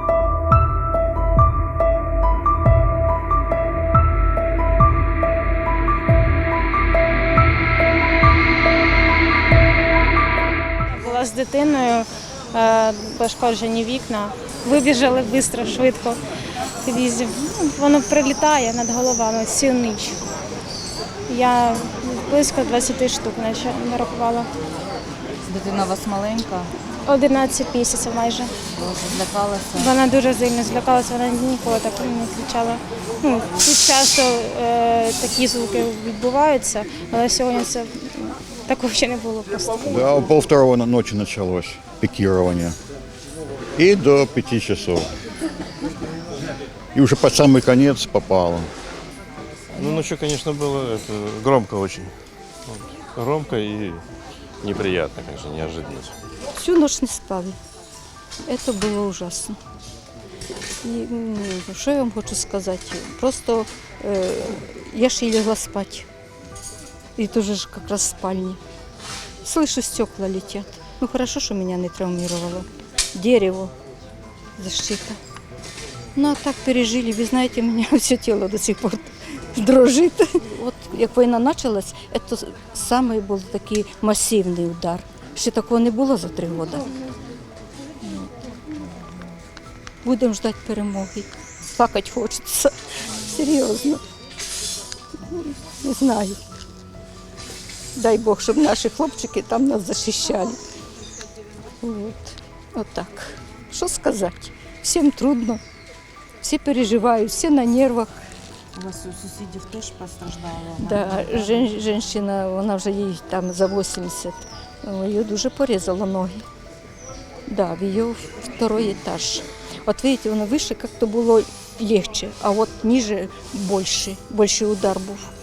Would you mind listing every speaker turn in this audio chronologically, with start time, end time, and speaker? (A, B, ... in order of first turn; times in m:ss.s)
0:10.9-0:16.2 A
0:16.8-0:20.2 A
0:21.3-0:24.5 A
0:25.5-0:26.7 B
0:27.0-0:28.5 A
0:28.8-0:29.9 B
0:29.8-0:40.0 A
0:39.8-0:42.8 C
0:43.8-0:45.1 C
0:46.9-0:48.7 C
0:49.8-0:52.1 D
0:53.2-0:54.0 D
0:54.6-0:56.1 D
0:56.5-0:57.6 E
0:58.5-0:59.6 E
1:00.8-1:06.1 E
1:07.2-1:08.6 E
1:09.4-1:13.7 E
1:14.6-1:15.2 E
1:16.2-1:26.9 E
1:28.0-1:28.3 E
1:30.0-1:34.0 E
1:35.3-1:36.4 E
1:38.0-1:40.6 E
1:41.8-1:45.6 E
1:46.4-1:48.2 E
1:48.8-1:51.6 B
1:50.8-1:56.4 E
1:57.5-2:05.3 E